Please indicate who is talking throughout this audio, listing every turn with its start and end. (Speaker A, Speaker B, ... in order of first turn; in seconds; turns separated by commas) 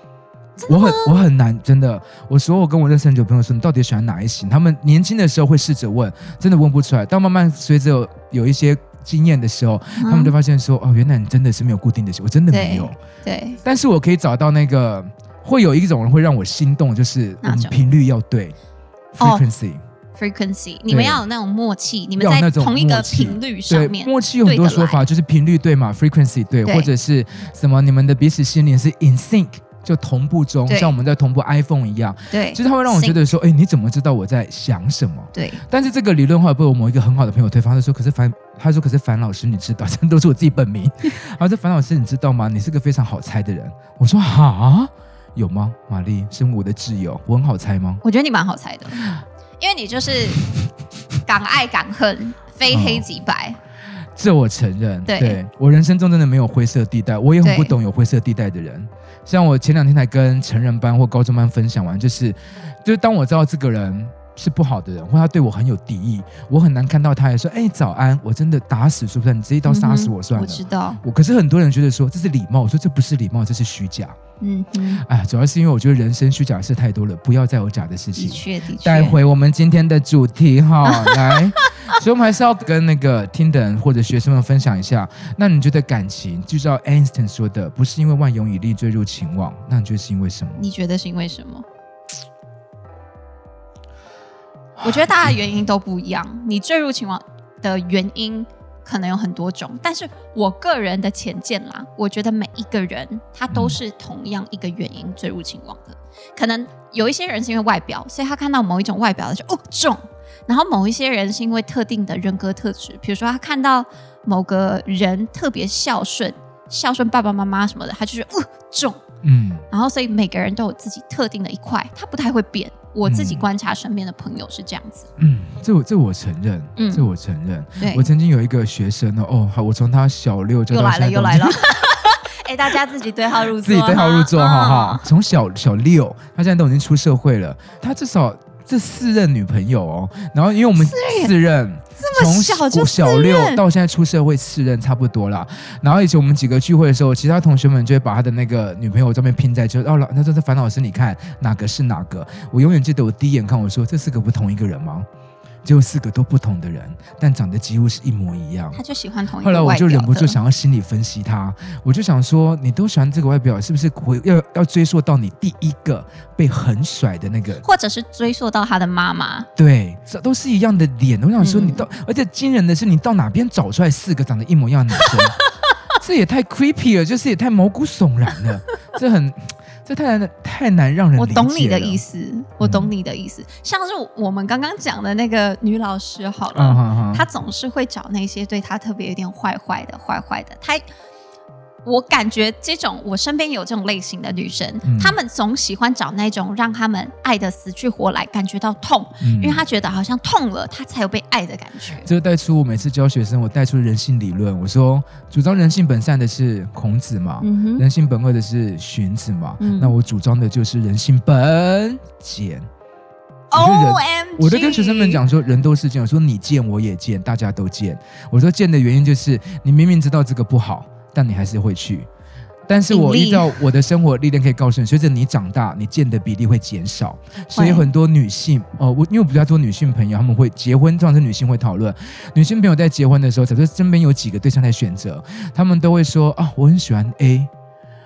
Speaker A: 0.6-1.2, Speaker B: 0.7-13.0, Speaker A: 10.0-10.3, Speaker A: 12.5-13.6, Speaker B: 13.6-18.6, Speaker A: 17.4-17.8, Speaker B: 19.1-19.8, Speaker A: 20.1-25.0, Speaker B: 20.9-21.2, Speaker B: 22.2-48.0, Speaker A: 30.7-31.0, Speaker A: 32.3-33.3, Speaker A: 35.3-35.6, Speaker A: 48.0-50.5, Speaker A: 51.2-53.6, Speaker B: 52.7-53.1, Speaker B: 54.1-74.2, Speaker A: 55.1-55.4, Speaker A: 57.4-57.8, Speaker A: 69.7-71.0, Speaker A: 74.4-75.0, Speaker B: 75.0-90.6, Speaker A: 78.2-79.2, Speaker A: 80.9-81.7, Speaker A: 90.6-91.6, Speaker B: 94.8-95.4, Speaker A: 94.8-119.0, Speaker B: 103.5-103.8, Speaker B: 119.2-119.6, Speaker A: 119.7-125.1, Speaker B: 123.0-123.5, Speaker B: 125.2-131.6, Speaker A: 126.8-127.1, Speaker A: 127.8-128.1, Speaker A: 130.7-135.1, Speaker B: 133.5-155.1, Speaker A: 140.8-141.3, Speaker A: 142.0-143.6, Speaker B: 155.6-158.8, Speaker A: 158.7-160.4, Speaker B: 159.4-167.6, Speaker A: 167.6-169.5, Speaker B: 169.6-175.4, Speaker A: 171.4-171.9, Speaker A: 175.0-175.7, Speaker B: 176.0-182.0, Speaker A: 181.2-190.8, Speaker B: 182.6-182.9, Speaker B: 186.5-187.2, Speaker A: 191.8-202.1, Speaker B: 194.9-195.2, Speaker B: 199.2-199.6, Speaker B: 202.0-212.7, Speaker A: 207.4-207.8, Speaker A: 209.6-209.9, Speaker A: 213.5-215.2, Speaker B: 213.5-222.1, Speaker B: 222.7-237.5, Speaker A: 222.9-223.6, Speaker A: 227.5-227.9